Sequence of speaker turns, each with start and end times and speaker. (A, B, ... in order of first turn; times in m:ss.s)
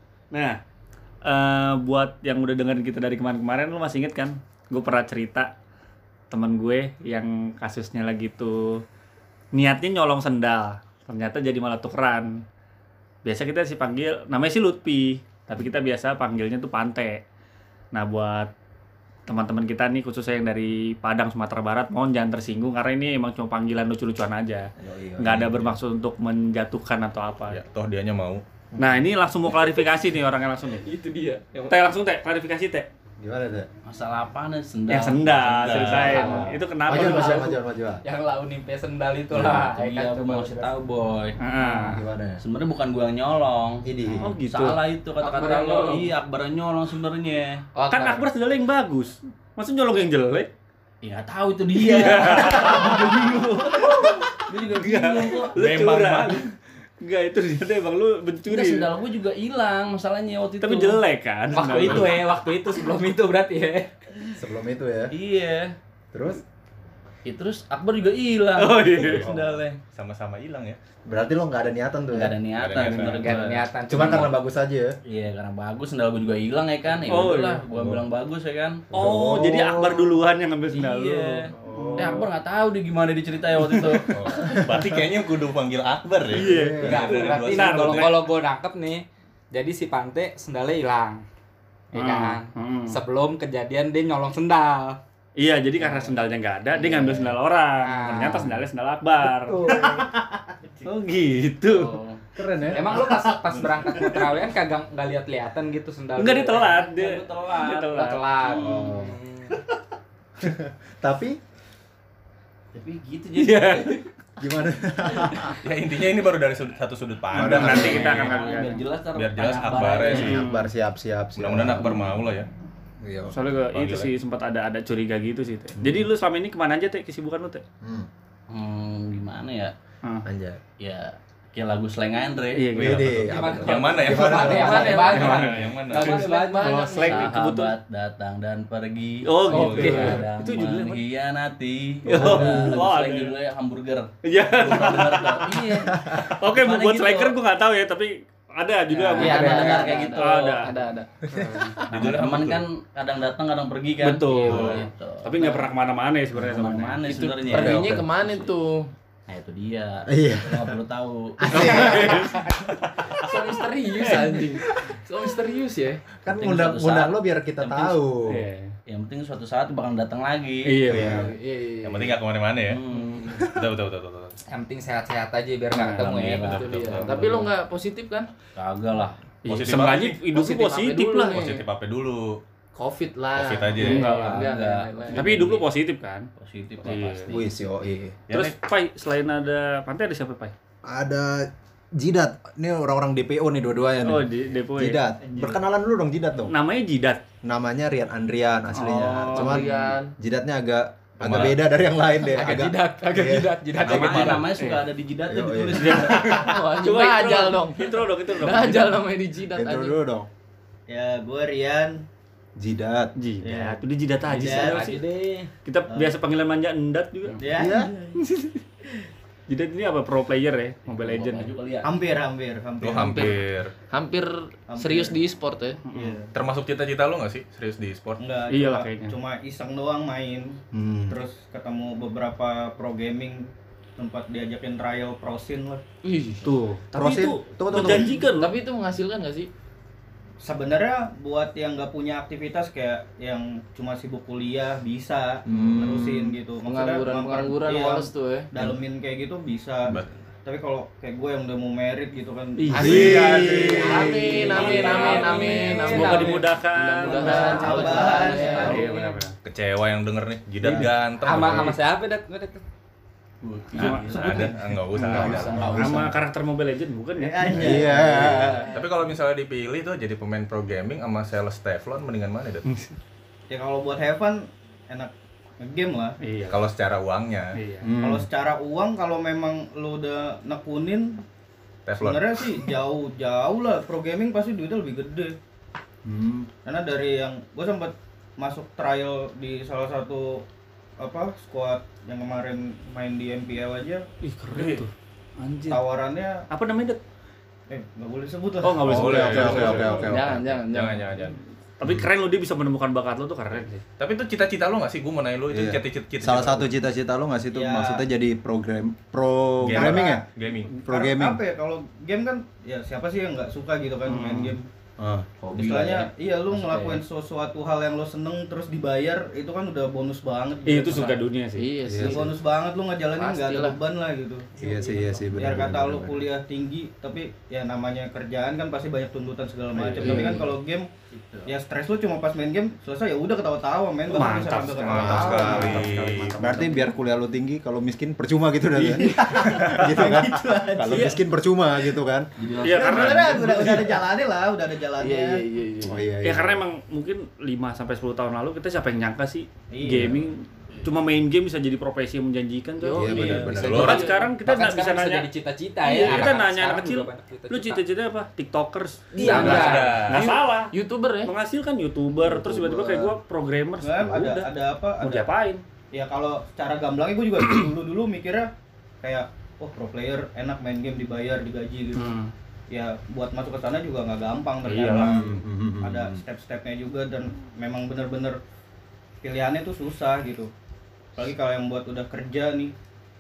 0:00.3-0:00.6 A
0:01.2-0:05.5 A
0:06.3-0:08.8 A
0:09.5-0:12.4 A
0:13.2-0:17.2 A
0:17.9-0:18.5 A
0:19.3-0:27.6 A
0:24.8-0:25.8 B
0:27.5-0:28.4 C
0:28.7-0:29.1 B
0:28.8-0:30.9 A
0:31.6-0:32.9 A
0:33.2-0:33.7 B
0:33.8-0:36.6 D
0:34.9-0:37.6 A
0:35.5-0:36.3 C
0:36.9-0:38.0 B
0:37.1-0:37.4 E
0:38.0-0:40.8 E
0:39.3-0:41.4 D
0:41.4-0:42.0 A
0:41.6-0:42.4 B
0:42.4-0:47.6 D
0:43.8-0:44.3 B
0:44.2-0:46.1 A
0:47.7-0:48.2 E
0:47.9-0:50.5 A
0:51.0-0:55.5 D
0:51.8-0:53.2 A
0:53.8-0:56.5 A
0:55.5-0:56.5 C
0:57.0-0:58.9 A
0:58.5-1:01.0 D
1:00.6-1:02.1 A
1:01.5-1:04.0 E
1:04.4-1:05.1 B
1:05.1-1:05.8 D
1:06.1-1:06.4 B
1:07.2-1:09.8 D
1:08.6-1:09.3 A
1:09.9-1:10.8 C
1:11.1-1:12.3 B
1:12.1-1:13.7 D
1:12.6-1:13.3 C
1:13.0-1:14.4 E
1:13.9-1:14.9 B
1:15.0-1:18.9 D
1:17.1-1:17.6 A
1:18.9-1:20.2 B
1:18.9-1:22.2 A
1:20.7-1:24.2 D
1:21.5-1:22.3 B
1:24.0-1:28.2 C
1:24.4-1:24.8 B
1:26.3-1:28.1 A
1:26.4-1:27.2 B
1:26.8-1:31.2 E
1:31.9-1:35.0 E
1:31.9-1:33.0 A
1:35.4-1:39.9 A
1:36.8-1:37.3 D
1:37.8-1:38.6 E
1:39.5-1:40.1 B
1:40.8-1:43.1 A
1:41.6-1:42.3 D
1:42.4-1:43.1 B
1:42.7-1:46.8 E
1:46.2-1:48.2 A
1:46.8-1:49.2 D
1:47.9-1:49.6 E
1:50.4-1:51.4 B
1:52.7-1:54.0 D
1:53.3-1:54.0 A
1:54.4-1:55.6 B
1:55.6-1:58.5 C
1:57.3-1:58.8 A
1:57.3-1:58.0 B
1:57.5-2:00.4 D
1:59.1-2:00.4 C
2:00.0-2:00.7 A
2:00.2-2:01.9 B
2:01.4-2:02.5 C
2:03.0-2:03.3 B
2:03.3-2:07.6 A
2:03.7-2:04.1 C
2:07.8-2:08.1 B
2:08.5-2:09.7 D
2:10.2-2:10.6 B
2:10.8-2:14.3 D
2:12.5-2:13.2 A
2:12.8-2:14.9 B
2:13.2-2:16.8 E
2:13.6-2:16.2 C
2:14.1-2:17.7 A
2:14.6-2:15.2 F
2:15.0-2:15.4 D
2:15.9-2:17.2 F
2:17.0-2:27.4 D
2:19.2-2:21.0 A
2:19.5-2:20.0 C
2:19.5-2:20.2 E
2:22.0-2:23.3 A
2:22.3-2:22.8 B
2:24.2-2:30.7 A
2:28.9-2:32.1 F
2:29.1-2:30.4 E
2:29.2-2:29.9 D
2:31.3-2:31.6 B
2:31.9-2:35.5 D
2:31.9-2:32.6 C
2:34.0-2:37.6 A
2:34.5-2:34.8 C
2:36.4-2:38.5 D
2:37.5-2:38.9 F
2:37.6-2:37.8 C
2:39.3-2:42.1 D
2:40.1-2:40.8 B
2:41.4-2:42.6 B
2:41.5-2:42.5 A
2:43.2-2:46.0 F
2:44.0-2:44.4 A
2:46.2-2:48.4 B
2:46.3-2:48.0 D
2:48.2-2:48.7 A
2:48.9-2:50.9 D
2:50.6-2:51.3 A
2:50.9-2:51.3 B
2:50.9-2:52.2 F
2:51.8-2:52.8 C
2:52.7-2:53.4 D
2:53.4-2:54.4 C
2:54.5-2:56.6 E
2:55.7-2:56.0 A
2:56.0-2:57.5 D
2:56.4-2:58.3 F
2:56.5-2:57.3 C
2:58.5-2:59.2 D
2:59.4-3:01.6 A
2:59.4-3:00.2 C
3:00.3-3:01.6 F
3:01.3-3:02.4 C
3:02.7-3:05.4 F
3:03.3-3:04.2 C
3:03.8-3:04.5 A
3:03.8-3:05.6 D
3:05.1-3:06.3 A
3:06.4-3:07.5 D
3:06.8-3:07.3 A
3:07.3-3:08.2 B
3:08.3-3:08.5 C
3:08.3-3:10.5 A
3:10.8-3:16.5 B
3:14.0-3:15.0 A
3:16.4-3:17.2 A
3:17.4-3:23.5 B
3:18.7-3:19.8 A
3:19.0-3:19.6 D
3:19.3-3:20.1 F
3:21.2-3:21.6 C
3:22.2-3:24.5 E
3:23.8-3:26.4 D
3:23.8-3:24.5 C
3:24.6-3:24.8 A
3:25.3-3:26.3 B
3:25.8-3:29.0 A
3:26.2-3:30.0 F
3:29.5-3:30.3 B
3:30.9-3:32.0 G
3:32.6-3:33.1 B
3:33.2-3:35.0 A
3:33.4-3:33.8 G
3:34.3-3:34.8 G
3:34.3-3:35.5 E
3:35.6-3:37.4 A
3:35.9-3:36.1 G
3:37.4-3:38.3 G
3:37.5-3:37.9 B
3:39.5-3:41.5 A
3:41.0-3:41.9 D
3:41.8-3:43.4 G
3:42.8-3:43.7 C
3:43.9-3:45.8 F
3:44.7-3:45.2 G
3:45.8-3:46.2 A
3:45.9-3:46.3 G
3:46.3-3:48.2 C
3:48.2-3:55.8 G
3:48.5-3:49.2 A
3:50.7-3:51.2 B
3:56.0-3:56.5 F
3:56.4-3:58.5 A
3:56.9-3:58.2 B
3:57.9-3:59.5 F
4:00.4-4:15.4 G
4:05.5-4:06.3 B
4:06.6-4:08.5 F
4:09.9-4:10.2 C
4:12.6-4:19.3 A
4:12.8-4:18.8 F
4:12.8-4:14.1 B
4:14.3-4:16.5 E
4:16.1-4:16.3 G
4:17.1-4:18.8 G
4:17.3-4:18.8 D
4:18.4-4:19.2 E
4:19.4-4:21.8 C
4:20.6-4:22.6 E
4:23.4-4:24.6 D
4:23.8-4:25.9 C
4:23.8-4:27.8 A
4:25.1-4:26.1 F
4:25.2-4:26.1 D
4:27.2-4:28.8 G
4:27.4-4:28.7 B
4:28.6-4:32.6 C
4:33.5-4:36.2 G
4:36.2-4:36.6 A
4:36.4-4:37.6 C
4:37.5-4:37.9 A
4:37.8-4:38.3 B
4:38.0-4:41.2 G
4:41.8-4:42.3 C
4:42.0-4:45.3 G
4:46.0-4:46.5 B
4:46.6-4:50.4 G
4:51.0-4:54.1 G
4:54.2-4:55.8 A
4:55.7-4:56.4 G
4:56.5-4:57.0 A
4:57.7-4:59.7 G
4:58.6-5:00.0 A
4:58.8-5:01.4 C
4:58.9-5:00.4 B
5:00.0-5:01.1 F
5:01.8-5:03.8 A
5:01.8-5:02.1 B
5:04.0-5:06.7 C
5:05.5-5:10.2 B
5:07.5-5:08.0 G
5:09.6-5:10.8 C
5:09.7-5:10.2 G
5:10.8-5:14.7 G
5:10.8-5:11.4 B
5:14.1-5:14.6 A
5:15.0-5:15.3 B
5:15.4-5:17.0 D
5:15.5-5:21.2 G
5:20.6-5:22.2 A
5:21.6-5:22.4 F
5:22.0-5:30.9 G
5:23.2-5:23.8 F
5:24.6-5:26.1 B
5:25.4-5:26.1 D
5:29.8-5:30.4 B
5:29.9-5:30.4 A
5:31.1-5:31.5 D
5:31.4-5:35.8 G
5:34.1-5:36.9 A
5:34.8-5:36.4 C
5:34.9-5:35.9 F
5:35.0-5:35.6 B
5:36.4-5:42.3 B
5:38.7-5:41.2 G
5:42.4-5:43.4 D
5:42.6-5:43.4 A
5:42.6-5:45.4 G
5:43.3-5:43.9 B
5:45.0-5:46.0 F
5:45.8-5:46.6 B
5:46.2-5:55.3 A
5:49.7-5:50.2 G
5:52.8-5:54.3 F
5:53.0-5:54.0 B
5:53.5-5:54.1 C
5:54.4-5:57.8 E
5:55.8-6:04.5 A
5:56.0-5:56.3 C
5:59.1-6:01.3 F
5:59.2-6:00.1 E
5:59.3-6:00.4 C
6:02.2-6:03.2 B
6:03.8-6:05.3 G
6:05.0-6:05.6 A
6:05.9-6:08.5 G
6:09.0-6:12.2 G
6:12.0-6:12.3 A
6:12.7-6:18.4 G
6:14.6-6:15.2 A
6:15.0-6:16.2 B
6:19.2-6:20.5 G
6:21.2-6:22.7 G